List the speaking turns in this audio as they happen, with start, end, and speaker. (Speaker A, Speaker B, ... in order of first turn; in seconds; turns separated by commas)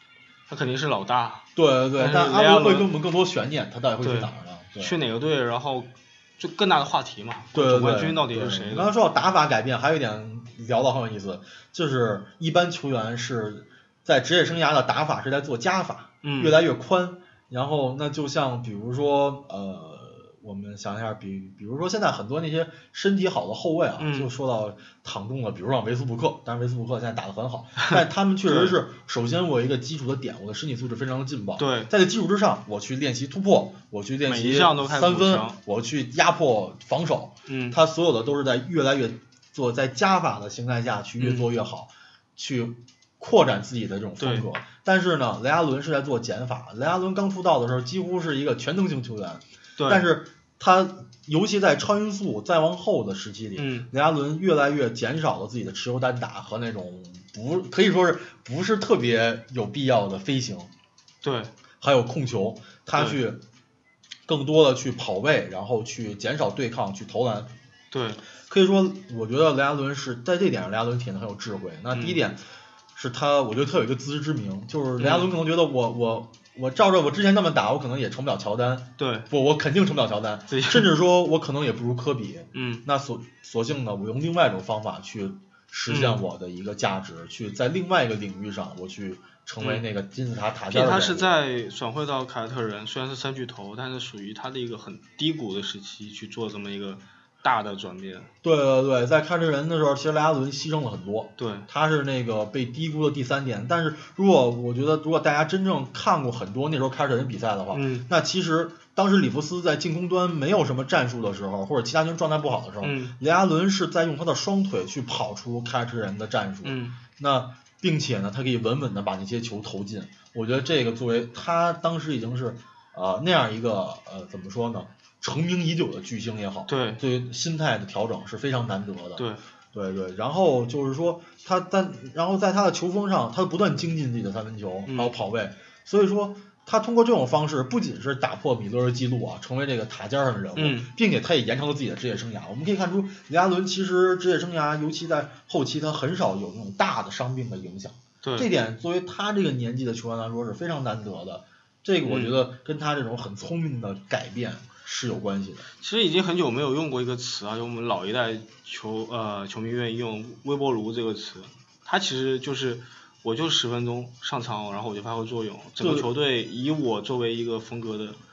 Speaker A: 0.5-2.9, Speaker B: 1.6-5.0, Speaker A: 4.0-8.9, Speaker B: 7.5-60.7, Speaker A: 16.2-16.6, Speaker A: 24.0-24.3, Speaker A: 28.4-28.8, Speaker A: 31.6-31.9, Speaker A: 34.2-35.6, Speaker A: 37.5-37.8, Speaker A: 41.2-41.5, Speaker A: 44.2-44.5, Speaker A: 49.8-50.1, Speaker A: 53.5-53.9, Speaker A: 61.2-61.5, Speaker B: 61.8-63.4, Speaker A: 62.9-63.2, Speaker B: 64.2-67.5, Speaker A: 67.9-68.2, Speaker B: 68.5-72.4, Speaker A: 71.9-72.2, Speaker B: 72.9-91.4, Speaker A: 75.0-75.3, Speaker A: 79.0-79.3, Speaker A: 80.5-80.9, Speaker A: 82.5-82.8, Speaker A: 85.9-86.2, Speaker A: 89.6-89.8, Speaker A: 90.7-98.3, Speaker B: 98.4-155.7, Speaker A: 101.4-101.7, Speaker A: 107.7-108.1, Speaker A: 112.8-113.1, Speaker A: 116.6-117.0, Speaker A: 126.7-127.0, Speaker A: 129.2-129.4, Speaker A: 134.9-135.1, Speaker A: 140.5-140.9, Speaker A: 148.2-148.5, Speaker A: 152.0-152.4, Speaker A: 155.8-168.2, Speaker B: 165.8-166.1